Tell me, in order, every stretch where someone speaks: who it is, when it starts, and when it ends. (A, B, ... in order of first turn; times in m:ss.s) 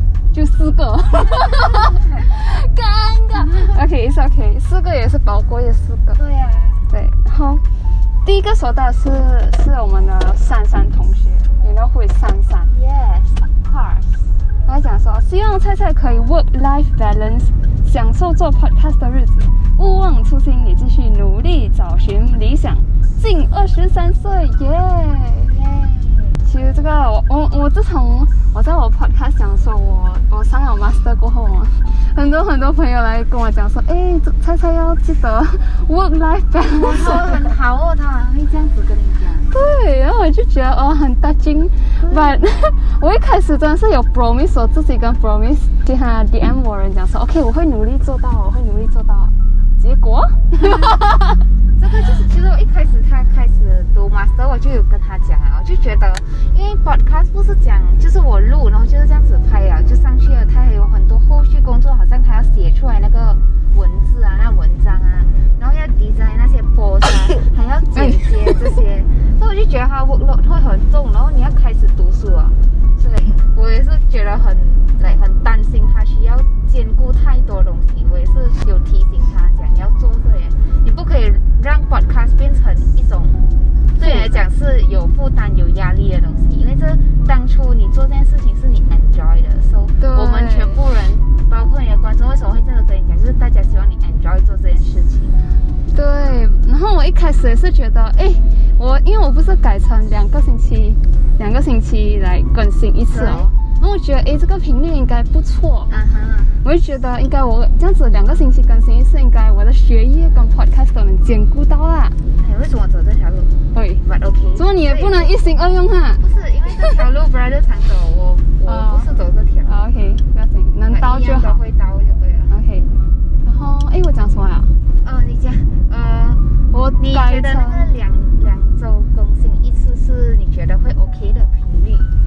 0:00.3-0:06.2 A
0:03.5-0:03.8 B
0:06.1-0:06.9 B
0:06.9-0:07.6 A
0:08.2-0:12.7 A
0:12.7-0:14.3 B
0:14.6-0:25.6 A
0:25.5-0:26.4 B
0:26.4-0:37.5 A
0:36.7-0:39.5 B
0:39.5-0:51.3 A
0:42.0-0:42.4 B
0:50.6-0:51.0 B
0:51.8-1:35.4 B
1:07.9-1:08.3 A
1:24.0-1:24.5 A
1:30.0-1:30.8 A
1:35.9-1:46.1 A
1:43.0-1:43.6 B
1:45.9-1:46.7 B
1:46.6-1:52.2 A
1:52.3-1:55.4 B
1:53.7-1:54.0 A
1:54.6-1:57.0 A
1:56.2-1:59.9 B
1:58.7-2:01.6 A
2:00.9-2:02.6 B
2:02.5-2:02.9 A
2:03.4-2:04.7 A
2:05.0-2:06.4 B
2:06.7-2:08.0 A
2:07.0-2:12.1 B